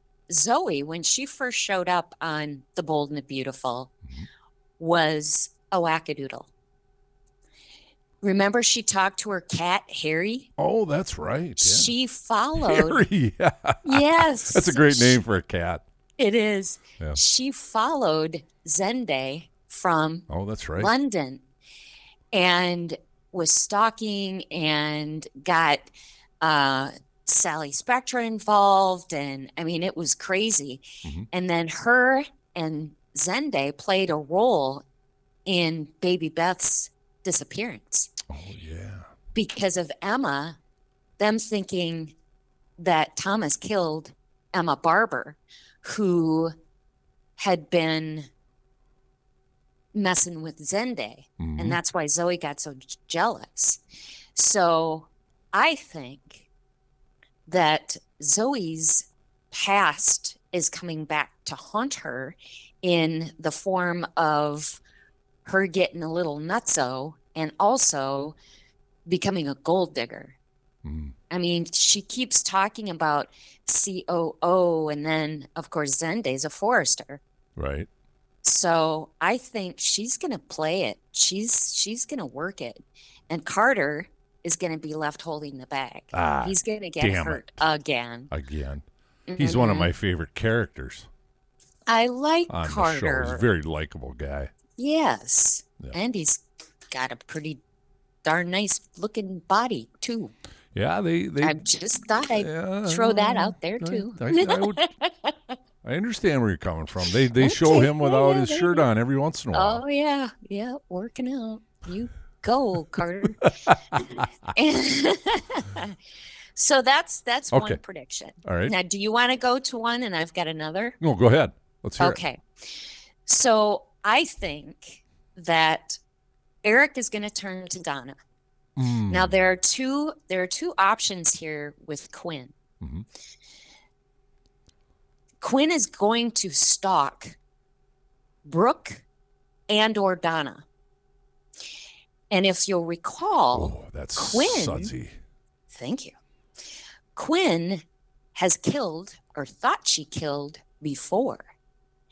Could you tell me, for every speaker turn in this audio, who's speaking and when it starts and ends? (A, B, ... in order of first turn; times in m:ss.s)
0:00.3-0:03.9 A
0:04.8-0:06.5 A
0:08.2-0:10.5 A
0:10.6-0:11.9 B
0:11.6-0:13.0 A
0:12.6-0:15.8 B
0:13.8-0:15.2 A
0:16.2-0:20.2 A
0:20.3-0:20.9 B
0:20.8-0:21.4 A
0:22.3-0:25.9 A
0:26.4-0:34.8 A
0:35.4-0:38.1 A
0:38.3-0:39.1 B
0:39.3-0:40.6 A
0:41.2-0:42.1 A
0:42.8-0:46.5 A
0:47.4-0:48.3 A
0:49.9-0:53.8 A
0:51.4-0:51.8 B
0:54.3-0:56.5 A
0:57.4-1:04.8 A
1:05.4-1:08.4 A
1:09.0-1:10.4 A
1:10.8-1:11.1 B
1:11.3-1:17.2 A
1:17.6-1:17.9 B
1:18.4-1:28.3 A
1:26.1-1:27.6 B
1:28.3-1:28.8 B
1:29.3-1:29.9 A
1:29.4-1:31.1 B
1:31.9-1:33.4 A
1:32.5-1:34.5 B
1:34.8-1:37.6 A
1:38.2-1:40.3 A
1:40.7-1:41.6 B
1:41.4-1:45.6 A
1:42.4-1:44.8 B
1:45.8-1:49.8 B
1:47.4-1:48.9 A
1:49.5-1:53.5 A
1:53.4-1:54.2 B
1:54.5-1:55.9 A
1:56.5-2:01.0 A
1:57.5-1:57.8 B
1:58.4-1:58.7 B
2:01.0-2:02.2 B
2:02.0-2:02.4 A
2:03.2-2:06.0 A
2:06.6-2:08.2 A
2:08.8-2:09.4 B
2:09.1-2:12.5 A
2:12.8-2:13.0 B
2:15.4-2:17.4 A
2:18.4-2:19.0 A
2:19.7-2:20.6 A
2:22.3-2:24.9 A
2:23.5-2:25.2 B
2:25.7-2:26.1 A
2:27.1-2:27.8 A
2:28.3-2:31.4 A